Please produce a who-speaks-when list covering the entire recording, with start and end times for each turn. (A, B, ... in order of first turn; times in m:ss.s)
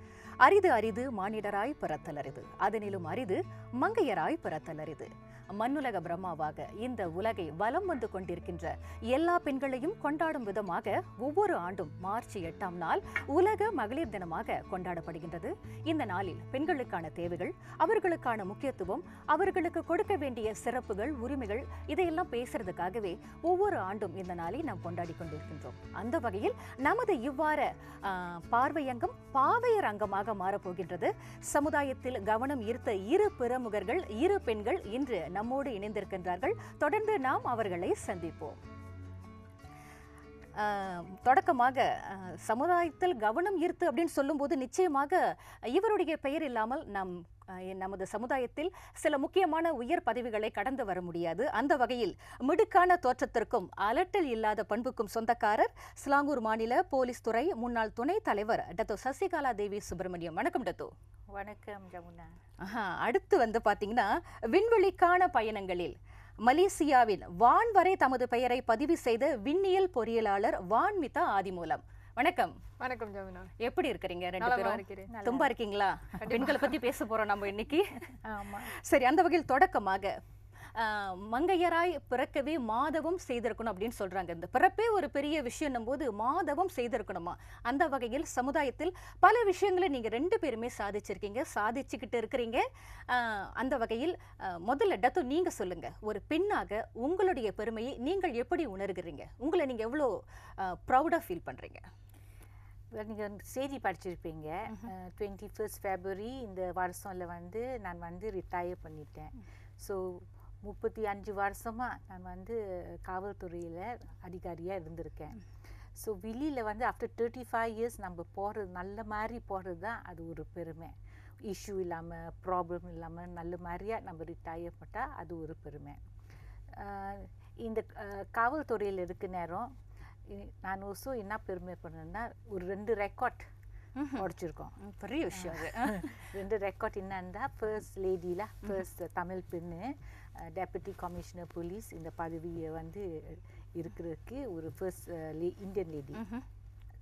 0:00.4-0:38.6 A
0:40.6-1:00.9 A
1:01.3-1:02.4 B
1:02.6-1:12.6 A
1:12.8-1:13.5 C
1:13.6-1:18.1 A
1:14.4-1:15.1 C
1:15.1-1:15.5 B
1:16.2-1:16.7 C
1:18.2-1:18.7 B
1:18.6-1:20.2 A
1:20.7-1:41.8 A
1:42.9-1:55.4 B
1:56.0-2:06.0 B
2:06.7-2:09.7 B
2:10.3-2:13.5 B
2:14.0-2:14.3 A
2:14.1-2:14.8 B
2:14.8-2:16.3 A
2:15.3-2:26.2 B
2:26.2-2:26.4 A